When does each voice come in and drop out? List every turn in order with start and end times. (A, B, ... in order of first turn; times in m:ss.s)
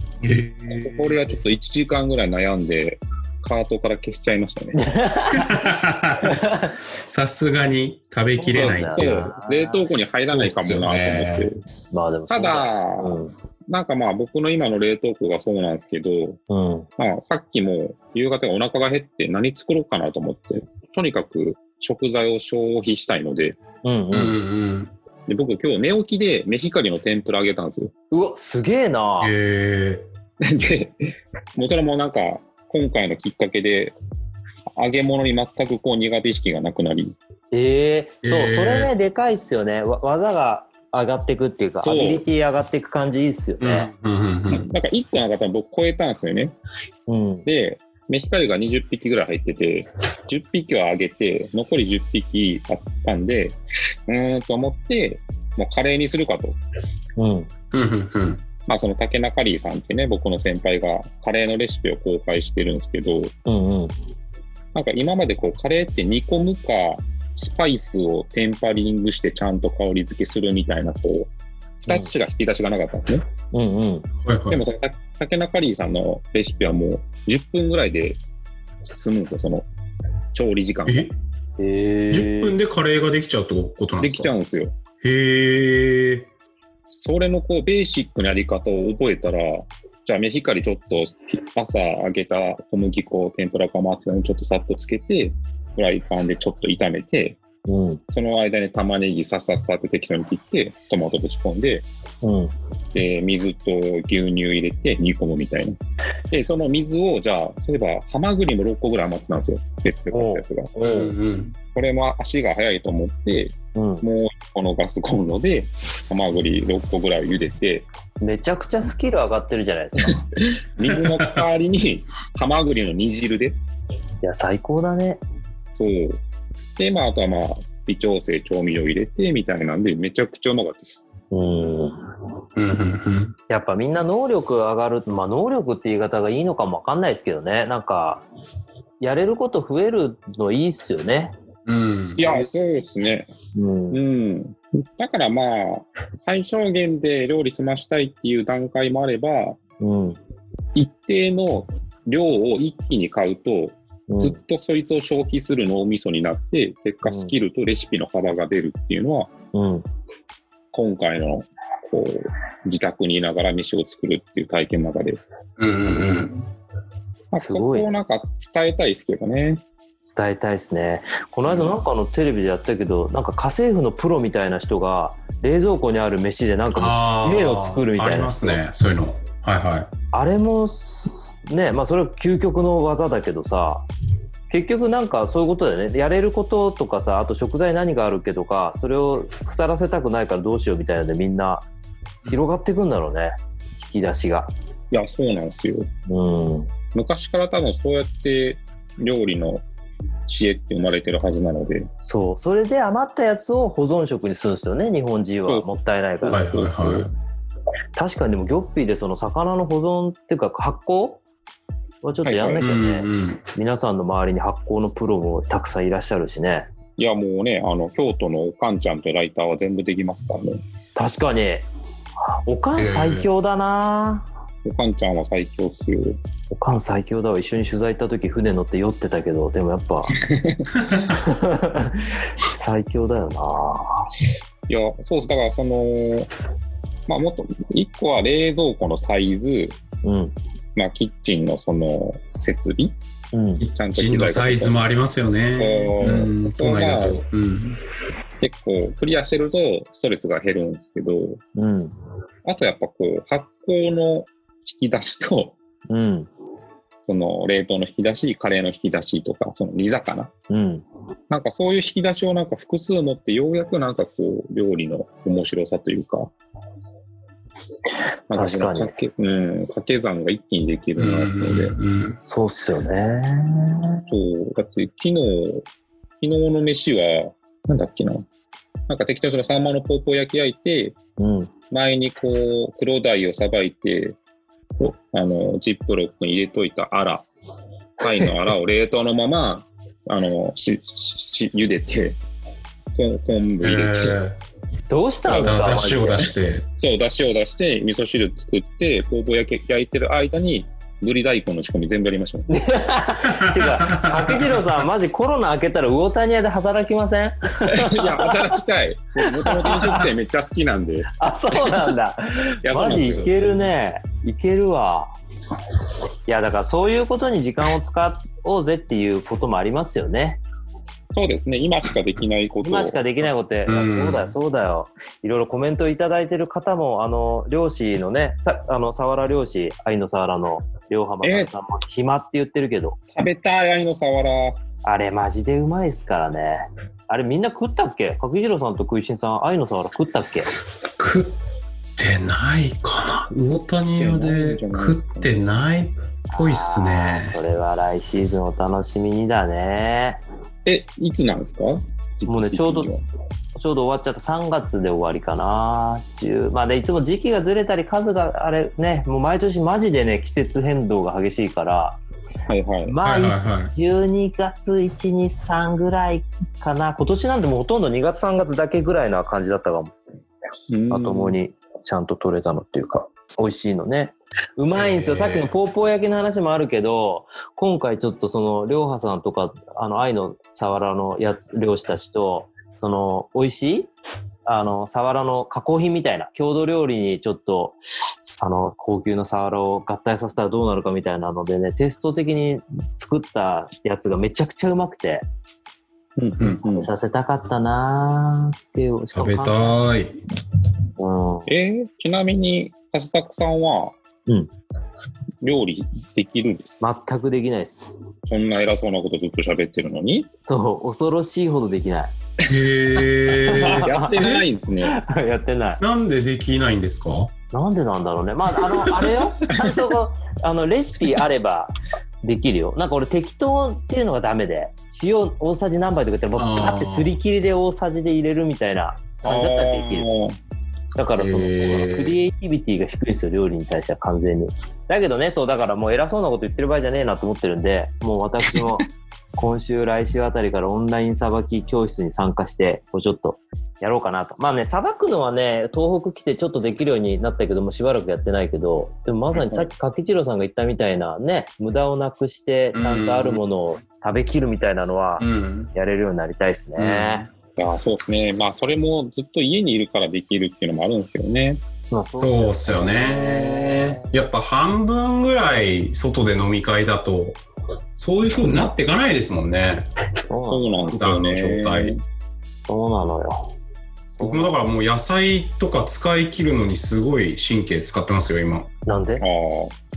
0:00.2-0:01.2 A
0:00.7-0:04.8 B
0:04.8-0:05.5 C
0:05.3-0:06.4 A
0:06.2-0:06.7 C
0:07.0-0:09.3 A
0:08.4-0:10.0 C
0:08.5-0:11.6 B
0:10.2-0:11.5 A
0:11.9-0:13.3 C
0:12.3-0:13.2 B
0:13.7-0:16.4 B
0:16.5-0:16.9 C
0:17.0-0:23.6 B
0:23.8-0:24.4 C
0:24.1-0:24.9 A
0:25.3-0:27.9 B
0:28.1-0:29.3 C
0:29.2-0:30.0 A
0:30.4-0:34.0 B
0:34.8-0:37.2 B
0:37.5-0:43.9 C
0:38.2-0:38.9 A
0:41.8-0:42.2 B
0:43.6-0:44.7 A
0:44.5-0:46.6 B
0:47.1-0:47.5 C
0:47.5-0:53.6 B
0:54.1-0:56.6 B
0:57.2-0:57.5 C
0:57.7-0:58.4 A
0:58.7-1:03.3 B
1:03.5-1:04.0 C
1:04.8-1:11.3 B
1:11.9-1:13.3 B
1:13.5-1:14.1 C
1:14.2-1:14.6 A
1:14.5-1:18.2 B
1:18.8-1:19.7 B
1:20.3-1:21.1 B
1:20.9-1:21.2 A
1:21.6-1:22.6 C
1:22.1-1:24.3 A
1:24.0-1:24.8 B
1:25.0-1:26.3 A
1:26.9-1:37.4 B
1:37.7-1:38.0 C
1:38.1-1:41.9 B
1:42.2-1:42.5 C
1:42.9-1:45.8 B
1:46.3-1:50.7 B
1:50.1-1:51.2 C
1:50.8-1:51.6 A
1:51.7-1:57.9 B
1:53.7-1:54.0 C
1:58.2-2:00.3 C
2:00.4-2:03.6 B
2:00.9-2:01.4 A
2:04.2-2:05.2 C
2:05.8-2:06.2 B
2:06.8-2:11.0 B
2:11.3-2:12.0 C
2:12.6-2:13.4 A
2:13.5-2:18.2 C
2:19.0-2:21.3 C
2:21.7-2:22.2 A
2:22.2-2:23.3 B
2:23.6-2:24.0 C
2:23.9-2:29.6 B
2:29.8-2:30.2 C
2:30.8-2:39.3 B
2:34.1-2:34.4 C
2:37.0-2:37.3 C
2:39.5-2:39.8 C
2:40.7-2:45.2 B
2:45.6-2:46.4 A
2:47.3-2:49.6 B
2:47.4-2:47.9 C
2:50.0-2:58.6 C
2:56.8-2:59.9 A
3:00.1-3:03.8 C
3:04.5-3:11.7 C
3:12.2-3:14.5 C
3:14.9-3:15.9 B
3:16.1-3:16.7 C
3:16.9-3:19.6 B
3:20.3-3:21.9 B
3:22.0-3:26.4 C
3:25.5-3:25.7 B
3:26.3-3:27.1 B
3:26.3-3:27.1 A
3:28.0-3:31.2 C
3:32.0-3:36.7 C
3:32.2-3:32.7 B
3:32.6-3:33.4 A
3:37.0-3:40.6 B
3:41.0-3:41.7 C
3:42.3-3:44.3 C
3:42.8-3:43.3 A
3:44.6-3:46.2 B
3:46.5-3:50.2 C
3:50.2-3:50.7 B
3:51.1-3:54.1 C
3:54.7-3:56.3 B
3:57.1-3:59.8 B
4:00.0-4:00.3 C
4:00.8-4:03.0 B
4:03.3-4:03.6 C
4:03.6-4:07.8 A
4:03.7-4:04.8 B
4:05.5-4:07.2 B
4:08.4-4:11.4 B
4:11.6-4:11.9 C
4:12.4-4:15.6 B
4:15.9-4:16.3 C
4:17.0-4:20.3 B
4:20.5-4:20.8 C
4:21.3-4:26.3 B
4:28.3-4:31.8 B
4:28.3-4:28.9 C
4:31.0-4:32.2 A
4:32.2-4:34.0 C
4:34.1-4:35.7 B
4:36.2-4:38.3 B
4:38.9-4:41.0 B
4:41.2-4:41.5 C
4:41.7-4:44.2 B
4:44.8-4:47.2 B
4:48.0-4:52.2 B
4:53.0-4:54.2 B
4:53.6-4:54.4 A
4:54.9-4:56.3 C
4:55.3-4:56.7 A
4:56.8-5:02.5 B
5:02.5-5:08.6 C
5:03.2-5:04.6 A
5:07.7-5:11.1 B
5:09.3-5:10.1 C
5:11.2-5:15.2 C
5:12.6-5:13.4 B
5:12.8-5:13.6 A
5:16.3-5:20.4 C
5:21.1-5:23.0 B
5:22.6-5:33.0 C
5:23.7-5:24.3 A
5:31.2-5:31.5 B
5:33.2-5:34.6 B
5:34.8-5:40.5 C
5:41.0-5:41.3 A
5:42.0-5:47.4 A
5:43.9-5:45.4 B
5:46.3-5:50.2 C
5:50.7-5:53.0 B
5:52.3-5:52.9 C
5:53.6-6:02.0 C
6:02.5-6:03.0 B
6:02.9-6:10.0 C
6:03.0-6:03.7 A
6:10.7-6:11.4 B
6:10.9-6:23.9 C
6:14.7-6:15.5 A
6:24.5-6:35.3 C
6:36.2-6:36.9 B
6:36.6-6:39.8 C
6:39.1-6:40.2 A
6:41.0-6:41.5 C
6:41.5-6:44.0 B
6:45.4-6:46.8 B
6:46.8-6:47.9 C
6:48.3-6:50.3 B
6:50.4-6:52.1 C
6:52.5-6:54.4 A
6:53.4-6:55.8 C
6:53.5-6:55.0 B
6:55.8-6:57.3 A
6:57.5-7:10.1 C
6:58.6-6:59.6 A
7:06.4-7:07.1 A
7:09.2-7:10.4 B
7:11.0-7:37.3 C
7:11.2-7:12.2 A
7:29.3-7:29.7 B
7:32.7-7:33.4 A
7:35.2-7:35.7 A
7:36.8-7:37.3 A
7:37.6-7:41.6 B
7:41.9-7:44.1 C
7:42.2-7:47.4 A
7:48.0-7:49.9 A
7:50.3-7:50.9 C
7:50.5-7:52.0 B
7:50.9-7:52.0 A
7:52.6-7:53.6 C
7:54.1-7:54.5 C
7:54.2-7:58.7 A
7:58.9-7:59.2 C
7:59.2-7:59.8 B